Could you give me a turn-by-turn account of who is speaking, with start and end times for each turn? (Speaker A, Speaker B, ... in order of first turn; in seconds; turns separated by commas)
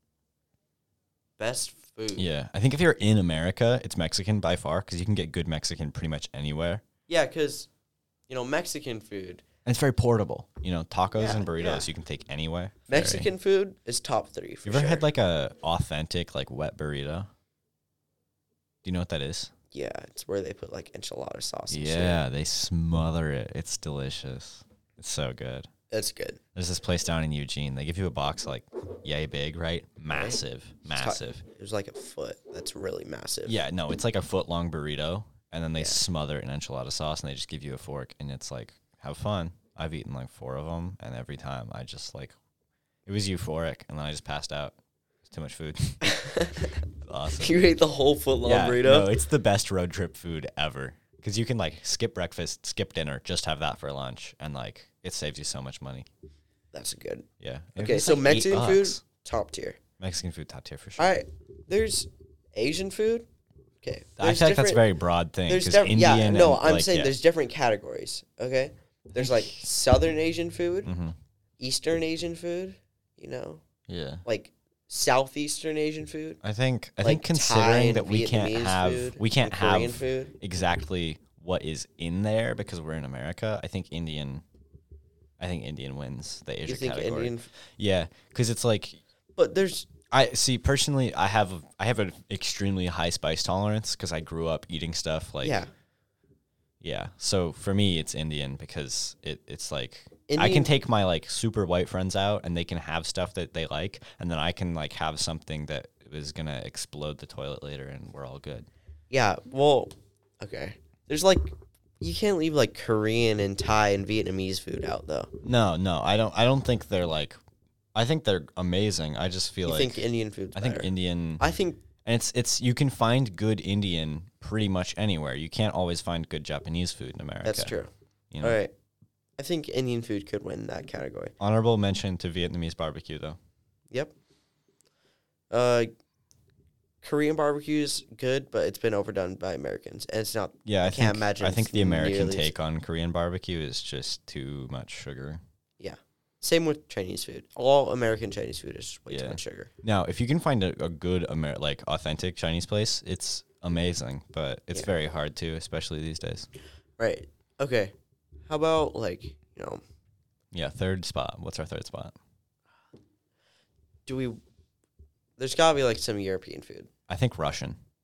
Speaker A: 1.4-2.3, Speaker B: 2.2-6.8, Speaker A: 7.1-7.7, Speaker A: 8.3-9.4, Speaker B: 9.7-13.3, Speaker A: 11.2-11.9, Speaker A: 12.9-15.1, Speaker B: 14.7-17.3, Speaker B: 18.8-19.5, Speaker A: 19.7-22.2, Speaker B: 21.7-25.7, Speaker A: 25.9-26.4, Speaker B: 26.6-31.4, Speaker A: 30.1-33.6, Speaker B: 33.5-42.4, Speaker B: 43.1-47.6, Speaker A: 46.0-46.8, Speaker A: 47.4-49.1, Speaker B: 48.4-56.1, Speaker A: 56.7-57.2, Speaker B: 57.4-59.0, Speaker A: 57.8-59.8, Speaker B: 60.0-61.1, Speaker A: 61.0-63.3, Speaker A: 63.8-64.8, Speaker B: 64.2-67.1, Speaker A: 65.5-70.9, Speaker B: 69.2-69.6, Speaker B: 70.8-71.2, Speaker A: 71.6-73.6, Speaker B: 73.9-74.2, Speaker A: 74.2-76.4, Speaker B: 76.4-84.4, Speaker A: 77.0-80.3, Speaker B: 85.4-89.0, Speaker A: 86.7-87.5, Speaker A: 89.4-89.9, Speaker B: 90.1-95.6, Speaker A: 95.4-95.7, Speaker B: 96.8-108.7, Speaker A: 100.3-100.7, Speaker A: 109.1-115.3, Speaker B: 115.4-117.4, Speaker B: 118.0-121.4, Speaker A: 119.7-121.8, Speaker B: 122.0-127.8, Speaker A: 127.4-127.9, Speaker B: 128.3-128.6, Speaker A: 128.4-128.7, Speaker A: 129.4-131.3, Speaker B: 131.4-133.4, Speaker A: 135.5-135.9, Speaker A: 137.0-142.5, Speaker B: 140.7-145.4, Speaker A: 145.8-149.7, Speaker B: 149.1-156.5, Speaker A: 157.0-157.9, Speaker A: 158.5-159.8, Speaker B: 160.5-162.2, Speaker A: 164.1-164.4, Speaker A: 165.4-166.9, Speaker B: 167.1-167.8